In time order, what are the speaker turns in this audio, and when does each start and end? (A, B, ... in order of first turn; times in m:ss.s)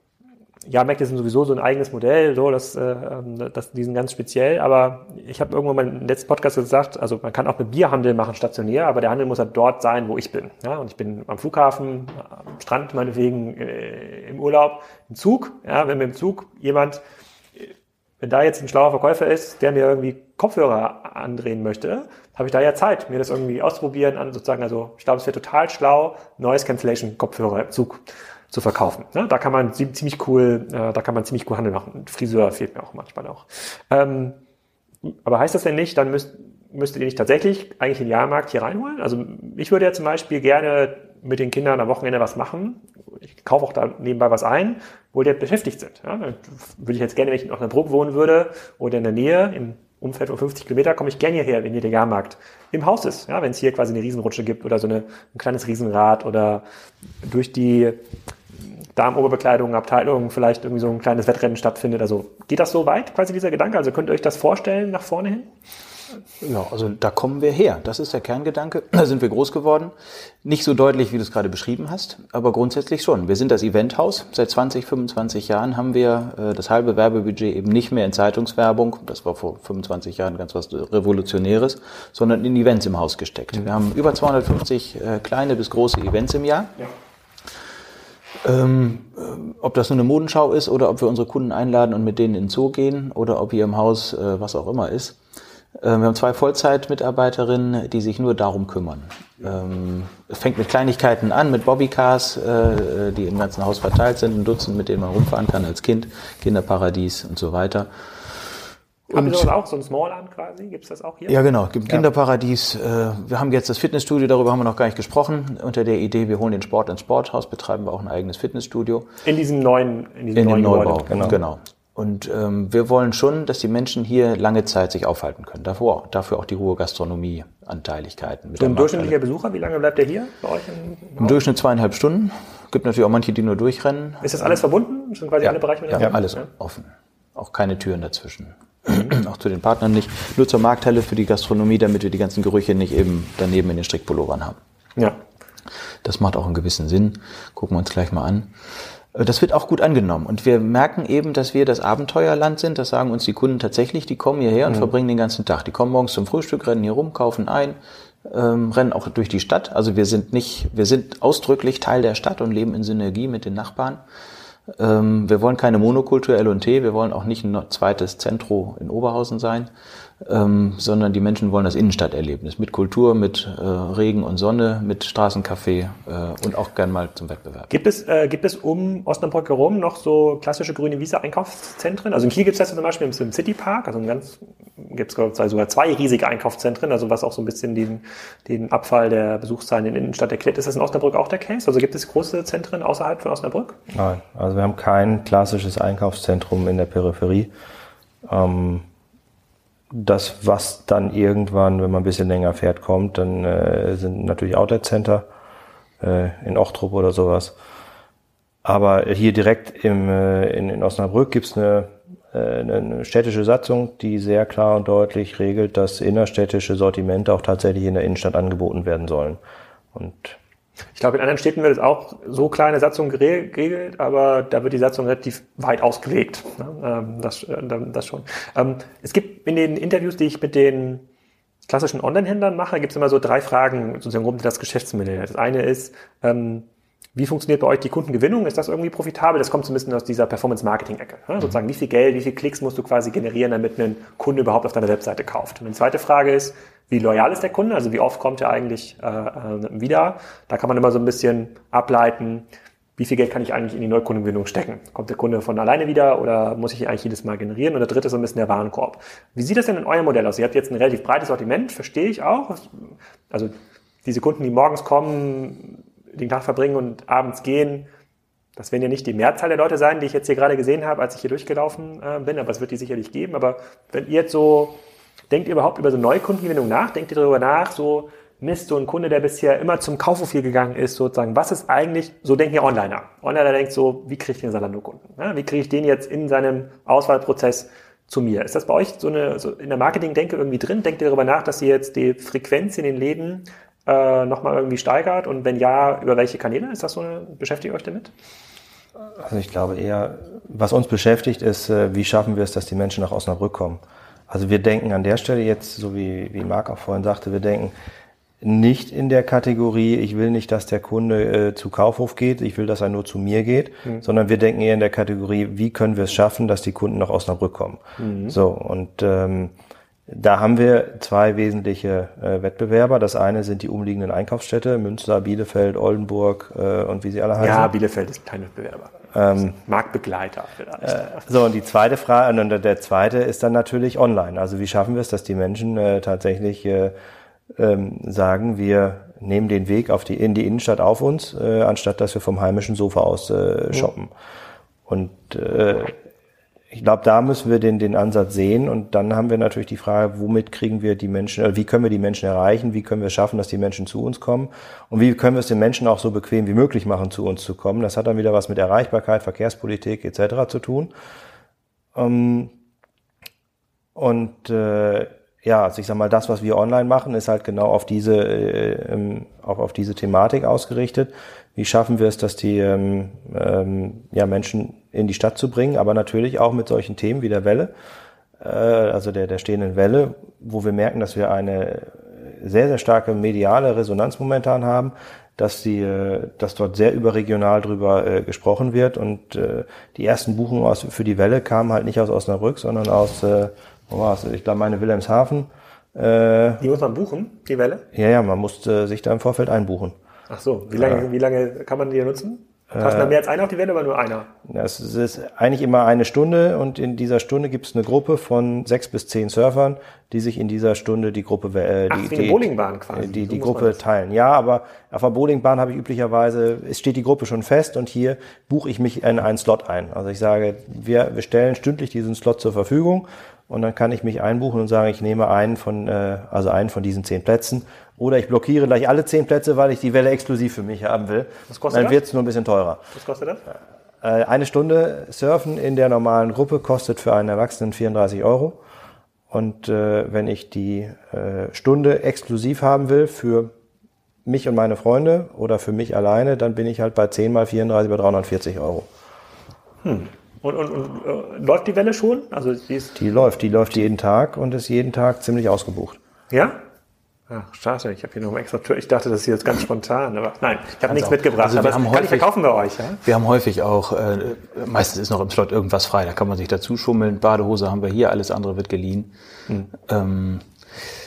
0:00.7-0:17.0 A
0:18.2-0:34.4 A
0:35.1-0:42.8 A
0:43.4-0:56.6 A
0:57.2-0:58.0 A
0:59.0-1:05.5 A
1:06.4-1:09.9 B
1:10.4-1:26.8 B
1:28.4-1:35.2 B
1:35.8-1:47.9 B
1:49.1-1:51.4 A
1:49.1-1:49.5 B
1:51.3-1:59.1 B
1:59.2-2:01.4 A
2:00.4-2:09.1 B
2:01.1-2:01.4 C
2:08.6-2:11.4 A
2:11.2-2:14.5 B
2:14.2-2:16.5 A
2:15.4-2:24.6 B
2:26.0-2:28.5 B
2:29.1-2:44.0 B
2:44.7-2:49.7 B
2:50.2-2:57.7 B
2:57.7-3:13.8 A
3:13.9-3:17.5 C
3:18.2-3:18.8 C
3:19.9-3:25.3 C
3:26.0-3:27.6 C
3:28.6-3:39.4 C
3:39.9-3:40.4 C
3:41.0-3:51.0 A
3:51.7-4:12.5 A
4:13.0-4:23.5 A
4:24.0-4:27.9 A
4:28.6-4:34.8 A
4:35.3-4:58.1 A
4:59.2-5:07.7 C
5:08.4-5:19.5 C
5:18.0-5:18.4 A
5:20.1-5:27.7 C
5:27.4-5:31.3 A
5:29.1-5:29.6 C
5:30.8-5:36.9 C
5:37.6-5:44.1 C
5:44.9-5:46.0 C
5:46.7-6:00.9 C
6:02.0-6:02.5 C
6:04.0-6:17.7 C
6:18.4-6:36.6 C
6:36.6-6:37.8 A
6:37.9-6:40.0 C
6:40.3-6:44.3 A
6:40.8-6:41.0 C
6:42.7-6:43.2 C
6:44.5-7:12.8 C
6:51.9-6:53.8 A
7:11.5-7:12.0 A
7:12.9-7:13.4 A
7:14.0-7:18.6 C
7:19.3-7:23.5 C
7:24.2-7:28.9 C
7:29.8-7:33.0 A
7:33.0-7:36.0 C
7:36.3-7:36.6 A
7:37.3-7:43.0 A
7:40.9-7:42.3 B
7:43.0-7:49.1 B
7:49.7-7:50.5 B